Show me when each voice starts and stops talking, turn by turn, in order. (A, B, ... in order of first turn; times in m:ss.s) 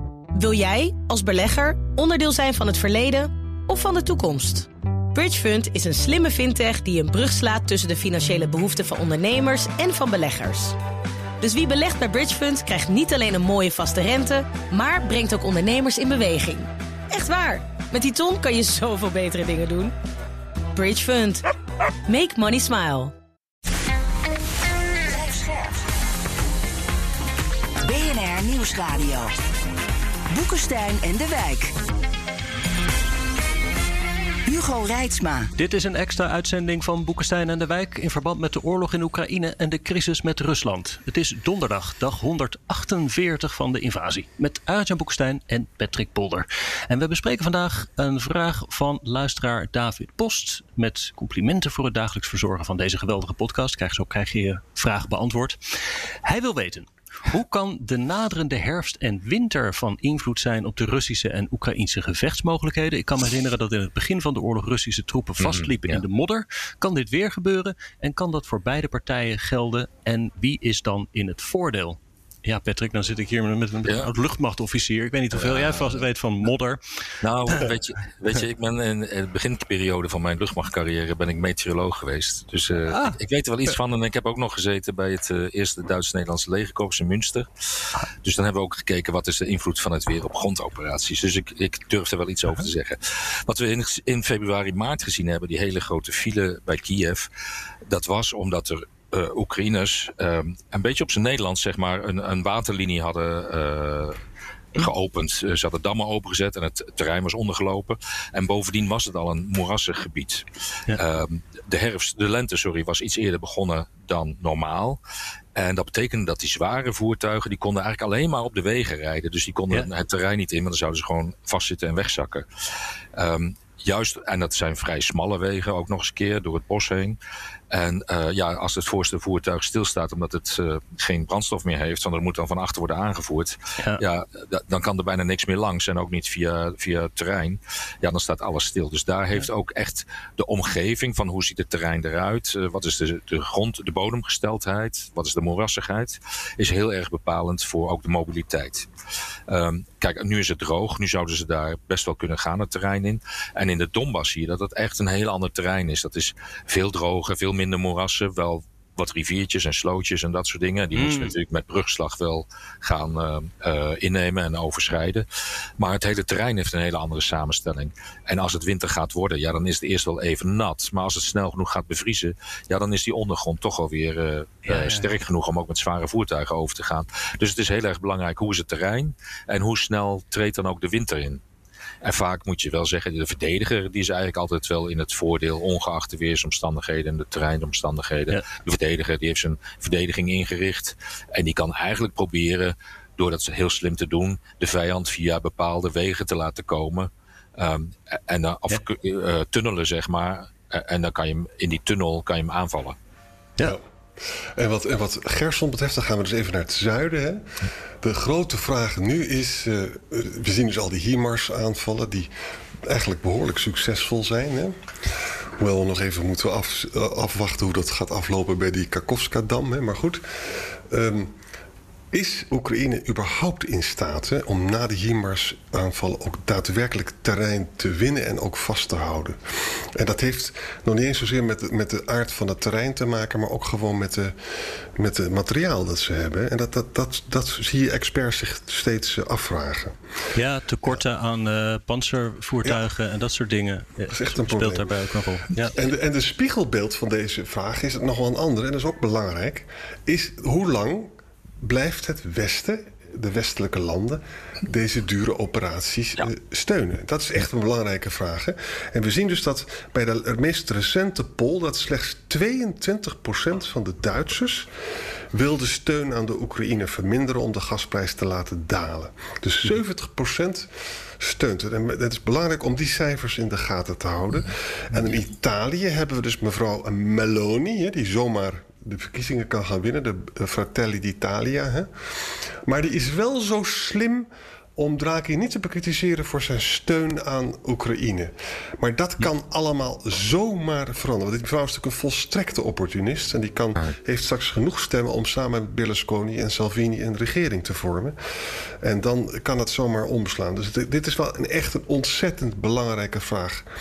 0:00.3-0:10.8 A
0:11.4-0:19.9 A
0:20.7-0:21.4 A
0:22.1-0:23.1 A
0:25.1-0:25.8 B
0:27.8-0:29.3 B
0:30.3-0:31.7 B
0:34.4-0:35.5 B
0:35.6-1:16.8 C
1:05.4-1:06.0 D
1:13.8-1:14.1 D
1:15.3-1:16.1 D
1:17.2-1:37.3 D
1:17.5-1:17.8 C
1:22.9-1:23.2 C
1:37.9-1:44.2 D
1:44.7-1:55.0 D
1:55.6-2:02.4 D
2:03.2-2:07.2 D
2:07.7-2:28.9 D
2:29.5-2:45.2 D
2:40.9-2:41.3 C
2:45.8-3:01.4 D
2:54.6-2:55.1 C
3:02.0-3:23.0 D
3:24.6-3:27.4 E
3:28.0-3:32.3 E
3:32.8-3:34.7 E
3:35.6-3:40.2 E
3:40.9-3:41.3 E
3:42.1-3:49.4 E
3:49.9-3:54.3 E
3:55.0-4:00.0 E
4:00.3-4:05.8 C
4:04.1-4:05.0 E
4:05.7-4:24.7 E
4:25.3-4:30.7 E
4:31.2-4:41.9 E
4:42.6-4:58.1 E
4:58.8-5:03.6 E